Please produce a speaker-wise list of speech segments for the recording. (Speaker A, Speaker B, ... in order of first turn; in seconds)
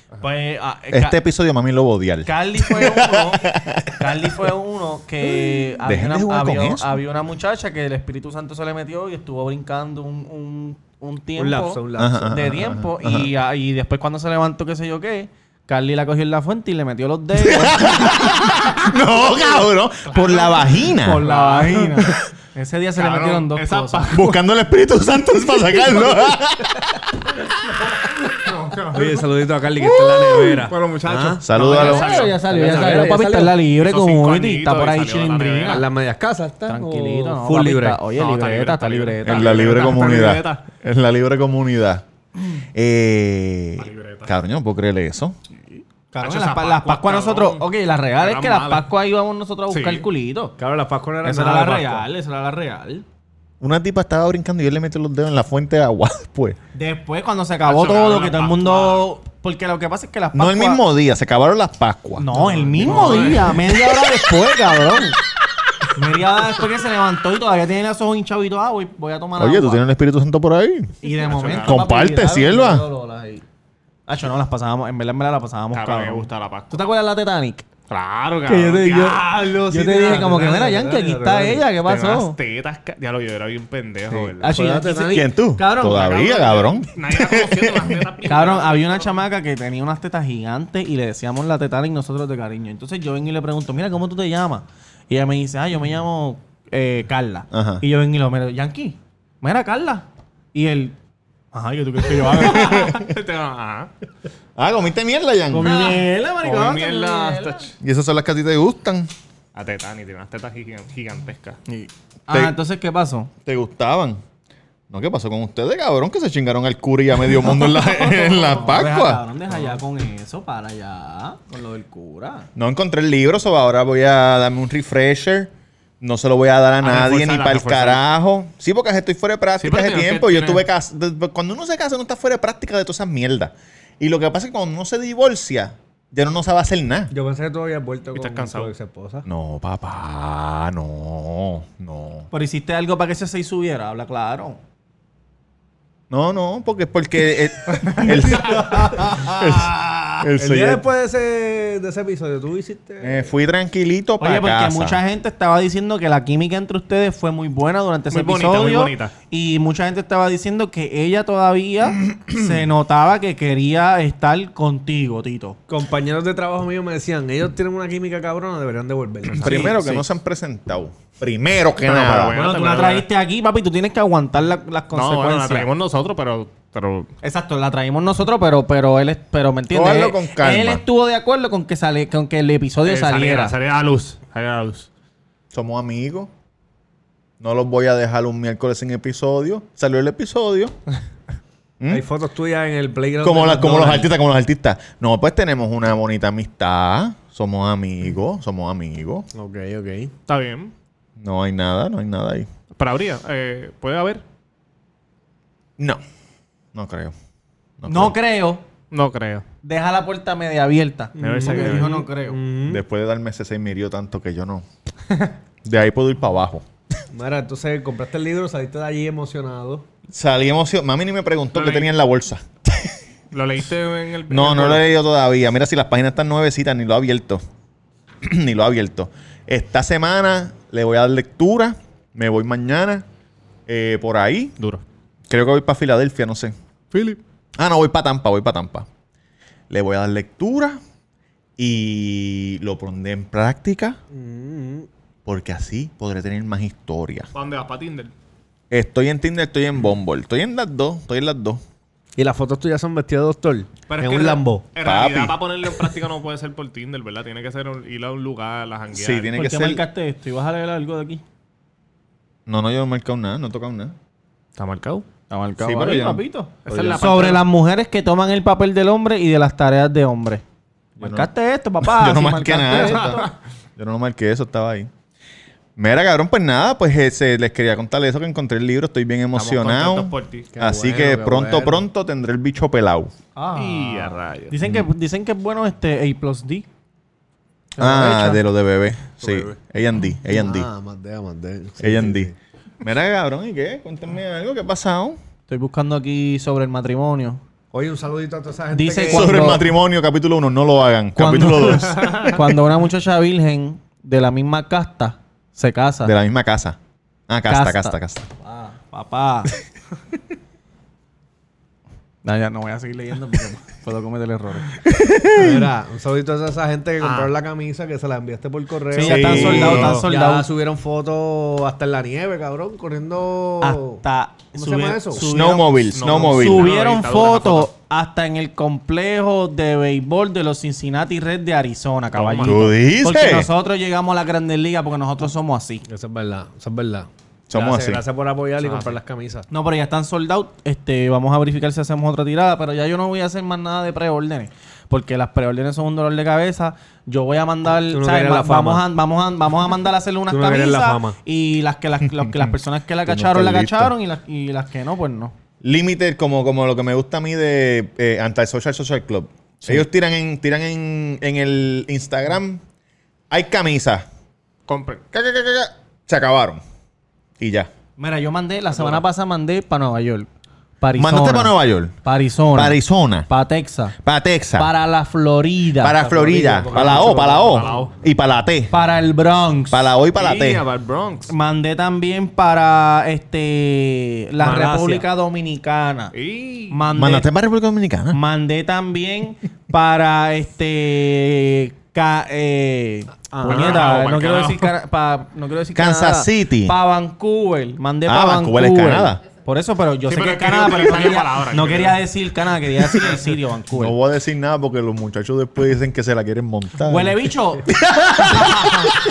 Speaker A: 0.2-1.2, 2.2-18.4, 21.0-24.2, 31.6-35.8, 36.6-39.8, 45.7-50.5, 51.2-53.0, 56.7-60.8, 62.2-65.2, 65.9-69.8, 71.0-73.4, 74.1-77.6, 78.5-82.4, 84.4-86.3, 88.2-101.0, 101.5-103.0, 105.5-107.7, 111.7-113.3, 117.6-122.5, 142.3-144.6, 148.0-150.2, 154.2-165.6, 169.4-170.0, 172.3-175.7, 177.2-183.6, 207.9-208.6, 209.6-212.4, 259.3-261.2, 265.3-270.4, 271.0-273.2, 283.4-286.6, 287.8-288.4, 295.5-297.4, 298.7-299.6, 301.2-306.1, 307.5-309.5, 312.2-314.7, 318.9-320.5, 323.6-335.8, 339.5-355.3, 368.0-370.3, 370.8-373.9, 374.6-376.0, 378.7-379.8, 381.3-386.1, 386.7-387.3, 388.1-403.9, 406.9-408.9
Speaker B: 0.9-4.3, 5.8-7.0, 12.0-13.3, 17.4-21.2, 24.1-26.9, 31.3-32.3, 39.2-42.0, 42.7-45.4, 53.6-56.6, 60.3-64.2, 69.4-70.9, 71.6-72.9, 85.1-88.1, 97.5-97.8, 102.4-102.9, 104.6-106.0, 107.8-109.1, 112.3-112.5, 113.4-114.2, 114.9-119.2, 122.5-137.1, 139.2-142.3, 146.1-150.8, 153.0-155.0, 162.1-162.6, 169.3-172.3, 179.7-180.8, 185.5-186.3, 187.4-190.7, 191.8-192.0, 193.2-199.3, 201.2-202.5, 206.7-207.1, 207.8-208.2, 212.7-214.6, 215.6-216.6, 220.1-222.9, 224.3-227.4, 228.2-233.0, 233.7-234.6, 235.3-236.5, 237.6-238.9, 239.7-240.8, 241.6-244.0, 245.2-247.3, 248.7-251.6, 254.8-255.4, 258.9-259.8, 262.4-263.9, 265.6-267.3, 271.0-271.3, 271.8-274.9, 275.8-283.1, 284.6-284.9, 287.8-290.7, 291.8-295.2, 299.1-302.4, 306.0-306.8, 307.3-308.3, 314.9-315.7, 319.0-320.0, 325.1-326.8, 332.4-333.5, 337.5-338.0, 352.2-353.9, 355.6-362.6, 363.3-364.1, 365.1-366.6, 367.4-367.7, 370.9-371.9, 372.5-373.3, 374.0-374.7, 375.8-378.7, 379.7-380.6, 386.9-388.2, 395.7-396.8, 398.1-399.2, 403.7-408.9
Speaker C: 11.4-12.4, 21.1-21.8, 28.9-31.4, 32.4-33.6, 35.7-38.0, 50.6-52.1, 62.9-63.2, 79.5-81.7, 84.1-85.2, 137.1-139.2, 150.4-153.3, 165.7-169.6, 191.9-194.1, 199.3-200.1, 211.2-212.8, 217.1-219.8, 244.1-244.9, 252.2-254.6, 280.5-281.8, 290.3-292.3, 297.7-299.6, 315.4-324.0, 324.5-325.2, 335.9-339.5, 347.9-348.9, 350.3-351.2, 376.0-377.9, 384.4-385.1
Speaker D: 20.1-21.8, 22.9-24.4, 27.8-29.2, 30.6-32.4, 33.7-35.9, 38.1-40.6, 43.8-44.3, 46.2-48.9, 49.7-50.1, 57.6-59.1, 62.8-63.5, 71.2-71.8, 75.7-76.8, 77.9-79.2, 81.8-84.6, 85.9-89.2, 102.4-103.9, 106.4-107.7, 109.5-111.6, 126.8-128.0, 129.6-130.6, 138.1-138.7, 158.1-159.1, 171.8-173.1, 174.9-177.1, 182.8-184.9, 200.3-200.7, 202.7-204.2, 208.9-209.4, 211.2-212.0, 221.5-221.9, 223.3-224.9, 234.6-234.8, 236.9-237.2, 247.3-248.1, 253.9-259.3, 264.6-265.1, 266.6-267.4, 272.8-273.3, 279.3-280.5, 283.5-284.6, 289.2-289.5, 302.0-302.3, 317.0-317.3, 319.6-319.9, 325.9-327.7, 332.1-332.6, 338.6-338.9, 364.7-365.0, 368.7-369.0, 376.7-377.9, 380.1-381.3, 386.1-386.8, 393.4-394.7, 400.1-402.0